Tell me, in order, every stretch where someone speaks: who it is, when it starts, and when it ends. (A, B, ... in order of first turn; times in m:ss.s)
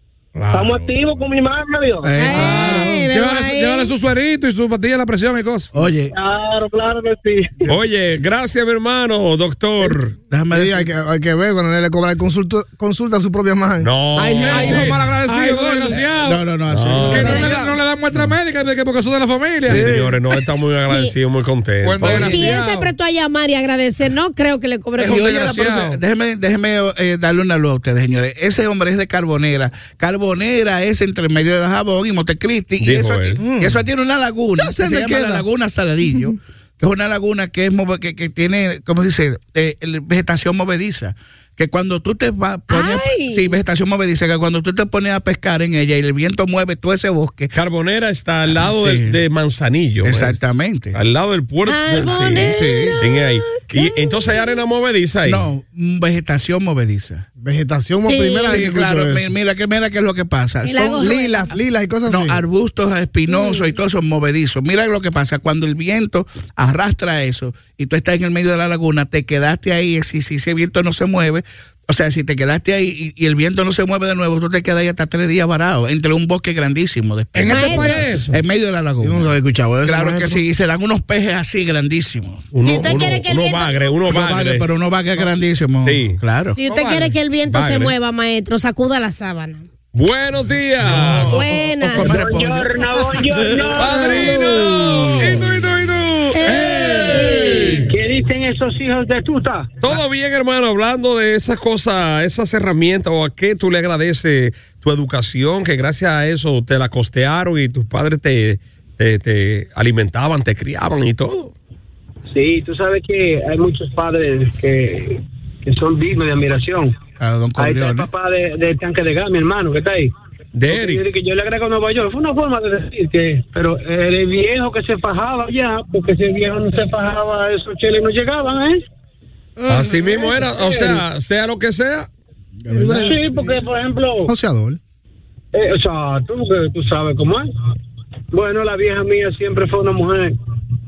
0:00.3-0:00.9 A
0:00.5-0:02.2 B
0:02.0-0:03.0 C
0:02.2-0:03.9 D
0:02.3-0:05.7 E
0:05.7-0:06.1 C
0:06.1-0:07.5 B
0:07.6-0:10.1 A
0:10.3-0:10.9 C
0:10.5-0:16.0 F
0:13.8-0:15.0 A
0:14.3-0:16.4 E
0:16.2-0:17.7 C
0:16.7-0:17.6 A
0:17.0-0:20.1 E
0:19.7-0:19.9 C
0:19.7-0:22.5 A
0:21.8-0:22.9 E
0:22.0-0:25.3 D
0:25.0-0:26.0 E
0:25.0-0:47.5 C
0:32.8-0:33.4 A
0:33.4-0:33.8 F
0:34.6-0:35.3 F
0:34.8-0:35.4 E
0:36.1-0:36.3 F
0:42.7-0:43.6 D
0:47.5-0:50.4 A
0:48.4-0:49.2 C
0:50.0-0:51.0 C
0:50.9-0:55.4 A
0:51.6-0:54.4 D
0:52.1-0:53.0 C
0:55.2-0:57.2 C
0:57.4-0:59.3 F
0:58.0-0:58.6 D
0:58.5-1:01.2 C
1:00.6-1:01.5 D
1:01.0-1:02.4 F
1:02.1-1:22.5 C
1:03.3-1:03.7 D
1:17.3-1:18.3 E
1:17.5-1:18.0 D
1:19.0-1:20.4 F
1:22.5-1:24.7 A
1:22.6-1:23.7 D
1:24.1-1:26.6 C
1:25.8-1:26.2 A
1:26.6-1:29.6 D
1:26.6-1:27.2 E
1:27.5-1:27.9 A
1:29.9-1:31.3 A
1:30.8-1:34.1 C
1:31.3-1:32.2 D
1:32.0-1:34.0 B
1:33.8-1:37.8 A
1:33.8-1:35.4 F
1:34.0-1:34.4 E
1:36.3-1:37.8 D
1:36.4-1:37.9 E
1:37.6-1:39.8 B
1:39.8-1:51.5 A
1:52.3-1:56.9 B
1:57.2-1:58.1 C
1:57.6-2:00.1 B
2:00.5-2:01.1 A
2:00.7-2:08.8 B
2:09.6-2:10.2 D
2:09.7-2:12.1 A
2:10.0-2:11.0 B
2:12.6-2:13.3 C
2:12.7-2:13.5 F
2:12.9-2:14.3 B
2:14.3-2:14.8 F
2:15.5-2:17.5 B
2:18.3-2:20.3 B